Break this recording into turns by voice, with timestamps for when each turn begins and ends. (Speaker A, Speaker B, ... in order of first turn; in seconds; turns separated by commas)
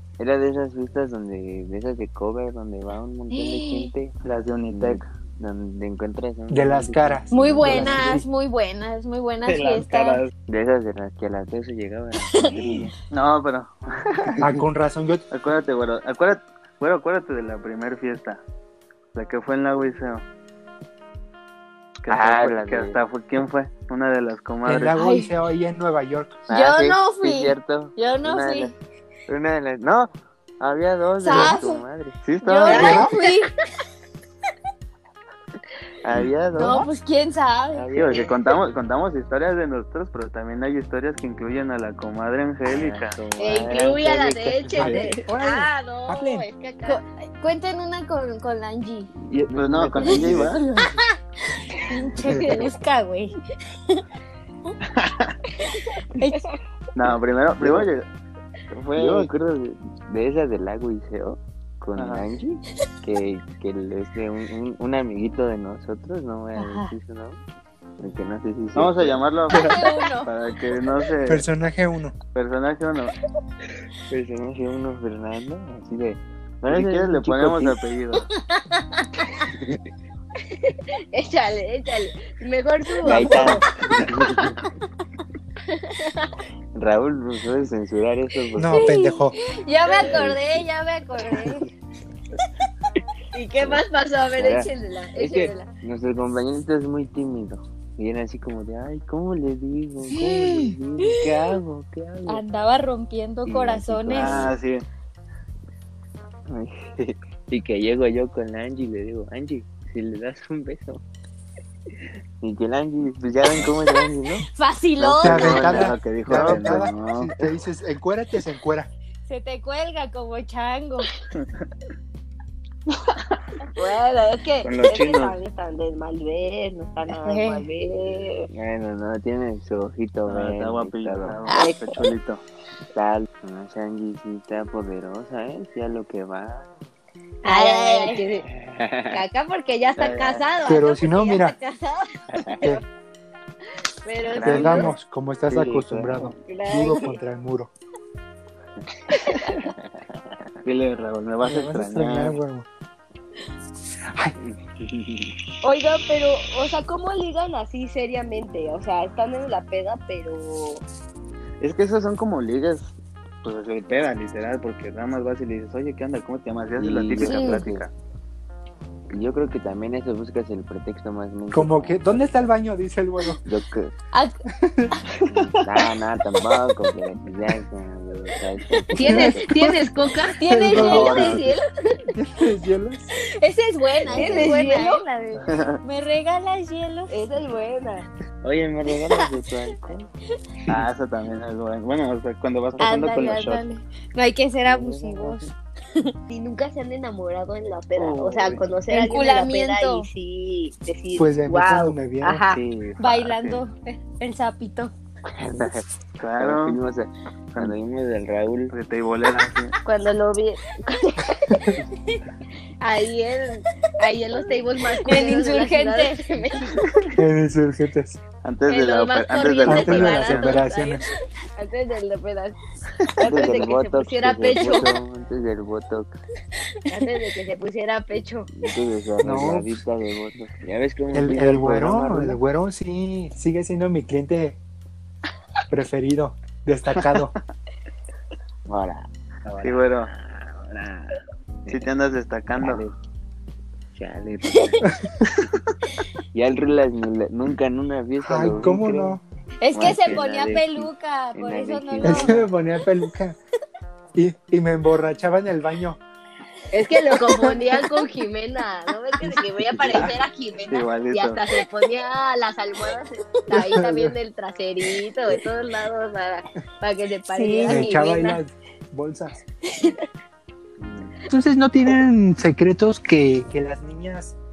Speaker A: 0.2-4.1, Speaker B: 3.3-3.9, Speaker C: 4.2-5.1, Speaker A: 4.7-8.2, Speaker D: 6.5-8.2, Speaker B: 7.3-10.2, Speaker C: 9.4-10.3, Speaker A: 10.5-12.9, Speaker B: 12.2-12.8, Speaker C: 13.1-14.5, Speaker D: 14.4-15.2, Speaker C: 15.3-18.4, Speaker C: 19.1-20.2, Speaker C: 22.0-24.9, Speaker A: 22.1-23.0, Speaker D: 24.6-26.4, Speaker B: 24.9-25.3, Speaker A: 26.5-28.7, Speaker B: 26.5-28.7, Speaker A: 29.3-32.2, Speaker B: 31.2-31.8, Speaker C: 32.2-33.1, Speaker B: 32.4-33.6, Speaker E: 32.6-33.2, Speaker D: 32.7-33.1, Speaker A: 36.0-36.9, Speaker C: 36.1-36.8, Speaker B: 36.5-37.9, Speaker A: 37.7-38.3, Speaker C: 37.9-43.2, Speaker A: 42.7-45.0, Speaker E: 43.4-47.0, Speaker D: 44.7-46.5, Speaker C: 44.8-45.1, Speaker B: 46.8-49.1, Speaker A: 49.2-50.7, Speaker C: 49.5-50.7, Speaker B: 50.0-51.1, Speaker B: 51.9-53.4, Speaker D: 52.3-52.5, Speaker E: 52.3-52.7, Speaker C: 54.9-55.4, Speaker B: 56.1-56.5, Speaker C: 56.9-58.0, Speaker A: 57.6-57.9, Speaker A: 58.7-67.4, Speaker C: 58.9-59.3, Speaker C: 62.0-62.3, Speaker B: 66.5-66.9, Speaker A: 68.0-69.6, Speaker C: 68.7-71.5, Speaker B: 69.5-70.3, Speaker D: 71.2-72.1, Speaker C: 72.3-73.2, Speaker A: 74.1-77.8, Speaker C: 76.7-78.3, Speaker A: 79.3-79.8, Speaker E: 80.7-83.7, Speaker A: 83.0-84.6, Speaker E: 85.7-86.3, Speaker A: 86.7-88.9, Speaker D: 88.6-89.3, Speaker B: 88.6-91.7, Speaker E: 89.9-90.1, Speaker A: 90.0-90.6, Speaker A: 91.3-91.6, Speaker E: 93.3-95.7, Speaker A: 93.6-93.8, Speaker A: 94.3-102.4, Speaker D: 100.2-100.7, Speaker B: 101.1-101.4, Speaker B: 102.2-104.5, Speaker A: 103.5-104.5, Speaker C: 104.1-104.8, Speaker A: 106.5-111.0, Speaker A: 112.4-114.5, Speaker B: 114.4-115.8, Speaker A: 115.0-116.9, Speaker D: 115.2-118.9, Speaker C: 115.2-117.3, Speaker B: 119.2-121.1, Speaker E: 123.7-128.5, Speaker C: 124.6-125.4, Speaker B: 127.2-127.7, Speaker A: 128.5-131.6, Speaker C: 130.3-132.4, Speaker E: 131.5-132.1, Speaker A: 132.9-136.7, Speaker E: 137.4-138.4, Speaker B: 137.4-138.3, Speaker A: 138.5-139.2, Speaker E: 139.1-142.8, Speaker C: 140.0-140.4, Speaker D: 140.6-141.6, Speaker A: 142.3-142.6, Speaker E: 144.0-144.9, Speaker A: 144.4-144.9, Speaker D: 144.4-147.7, Speaker A: 145.5-146.3, Speaker E: 146.4-147.2, Speaker A: 149.6-150.5, Speaker C: 150.6-152.4, Speaker D: 151.4-152.7, Speaker A: 154.4-155.3, Speaker E: 155.6-160.8, Speaker C: 161.6-167.9, Speaker A: 166.8-167.8, Speaker E: 167.2-167.6, Speaker A: 169.1-172.5, Speaker D: 171.5-173.4, Speaker A: 173.4-173.9, Speaker B: 174.1-174.4, Speaker D: 174.5-175.0, Speaker C: 175.1-175.9, Speaker A: 175.2-179.5, Speaker B: 178.8-179.3, Speaker D: 178.9-179.9, Speaker E: 178.9-182.1, Speaker B: 180.4-181.5, Speaker D: 180.4-181.4, Speaker A: 180.8-181.5, Speaker C: 180.8-181.3, Speaker D: 182.1-183.1, Speaker B: 183.1-187.1, Speaker A: 184.0-184.6, Speaker E: 184.1-185.5, Speaker C: 185.4-185.8, Speaker E: 187.1-188.1, Speaker A: 188.4-190.1, Speaker C: 190.7-193.6, Speaker B: 192.8-196.1, Speaker A: 194.6-195.5, Speaker E: 196.3-202.6, Speaker C: 197.9-198.7, Speaker B: 198.9-200.1, Speaker D: 201.1-202.4, Speaker C: 202.5-203.6, Speaker B: 203.0-204.9, Speaker A: 205.3-205.8, Speaker C: 206.2-206.8, Speaker A: 206.4-208.7, Speaker C: 208.7-209.8, Speaker E: 209.8-211.6, Speaker E: 212.8-216.9, Speaker B: 214.9-216.3, Speaker D: 217.1-218.2, Speaker C: 218.4-220.6, Speaker E: 218.7-222.6, Speaker D: 219.6-221.1, Speaker E: 223.2-224.9, Speaker A: 223.2-226.2, Speaker B: 224.5-224.9, Speaker E: 226.9-228.5, Speaker A: 228.5-232.4, Speaker D: 229.2-229.8, Speaker D: 231.1-234.6, Speaker D: 235.7-237.3, Speaker C: 237.0-237.3, Speaker A: 238.7-241.9, Speaker C: 239.6-240.1, Speaker C: 241.7-242.9, Speaker A: 242.5-242.9, Speaker A: 243.9-244.9, Speaker B: 244.5-244.8, Speaker D: 244.8-245.1, Speaker A: 246.3-249.2, Speaker D: 248.2-249.2, Speaker B: 249.6-252.4, Speaker A: 249.7-252.5, Speaker C: 249.8-250.2, Speaker D: 252.0-253.4, Speaker D: 254.1-256.0, Speaker E: 256.7-268.4, Speaker A: 259.7-260.1, Speaker C: 260.7-261.4, Speaker D: 263.5-264.1, Speaker B: 267.3-268.1, Speaker D: 267.6-269.4, Speaker B: 269.7-269.9, Speaker A: 270.8-271.1, Speaker D: 271.3-274.4